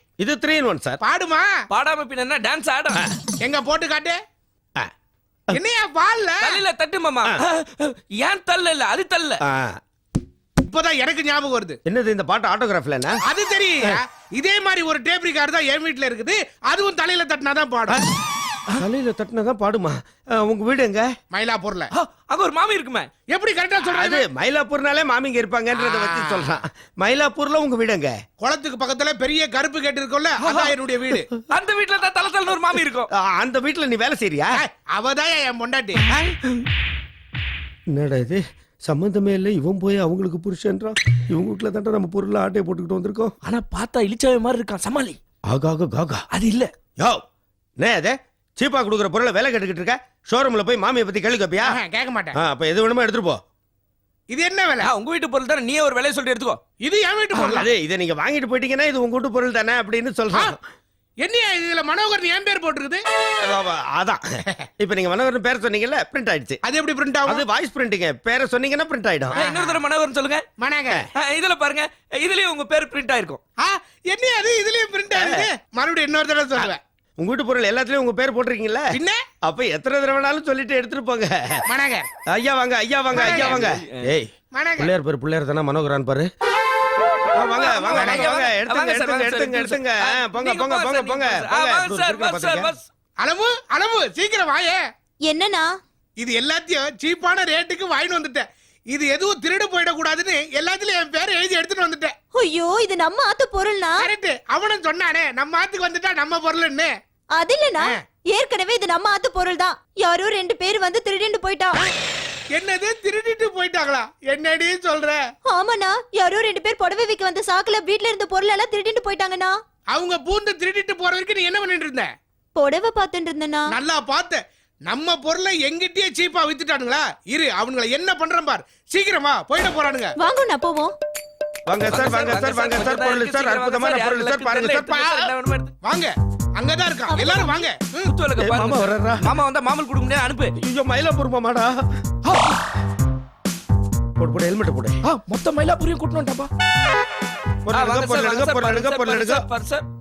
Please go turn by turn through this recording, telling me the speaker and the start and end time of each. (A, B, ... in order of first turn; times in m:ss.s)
0:00.2-0:01.0 A
0:01.0-0:01.6 B
0:01.7-0:03.0 C
0:03.4-0:04.2 B
0:05.5-0:06.6 B
0:06.4-0:09.4 C
0:09.5-0:09.8 A
0:10.6-0:11.8 B
0:11.9-0:13.2 A
0:13.3-0:18.0 B
0:18.8-0:21.1 A
0:21.3-0:21.9 B
0:22.0-0:23.1 C
0:23.3-0:24.3 B
0:24.0-0:28.2 A
0:25.8-0:26.6 B
0:28.4-0:31.3 B
0:30.4-0:30.7 C
0:31.5-0:33.1 C
0:33.2-0:34.6 A
0:34.6-0:36.3 B
0:37.9-0:43.4 A
0:43.4-0:45.2 C
0:45.5-0:46.2 A
0:46.3-0:46.7 C
0:47.8-0:51.7 A
0:51.7-0:52.4 B
0:52.4-0:53.4 A
0:54.3-0:54.9 B
0:54.8-0:56.6 C
0:56.8-0:57.7 B
0:57.5-1:00.6 A
1:01.2-1:03.0 B
1:03.4-1:06.6 A
1:06.6-1:07.4 B
1:07.3-1:09.4 A
1:09.3-1:09.8 B
1:09.4-1:10.4 C
1:10.6-1:11.0 B
1:11.1-1:13.4 C
1:13.6-1:16.8 B
1:15.2-1:15.5 A
1:16.6-1:21.6 A
1:18.9-1:19.2 B
1:21.7-1:22.1 B
1:22.3-1:26.3 A
1:23.1-1:23.7 B
1:23.2-1:24.0 C
1:24.5-1:24.9 B
1:27.4-1:32.7 A
1:27.5-1:32.8 C
1:28.0-1:28.3 B
1:33.2-1:34.8 B
1:35.3-1:35.7 D
1:36.2-1:42.1 B
1:42.4-1:44.1 D
1:44.0-1:46.9 B
1:47.4-1:51.8 D
1:52.6-1:55.2 B
1:55.5-1:59.6 D
1:59.9-2:02.1 B
2:02.6-2:03.8 D
2:03.7-2:10.1 B
2:10.2-2:10.9 D
2:11.7-2:15.2 A
2:11.9-2:15.7 C
2:15.8-2:18.1 B
2:17.1-2:17.7 D
2:18.0-2:20.5 C
2:18.4-2:19.3 A
2:20.6-2:21.8 A
2:22.2-2:22.6 C
2:24.2-2:25.0 A
2:25.1-2:26.5 C
2:27.7-2:29.4 A
2:27.7-2:29.8 C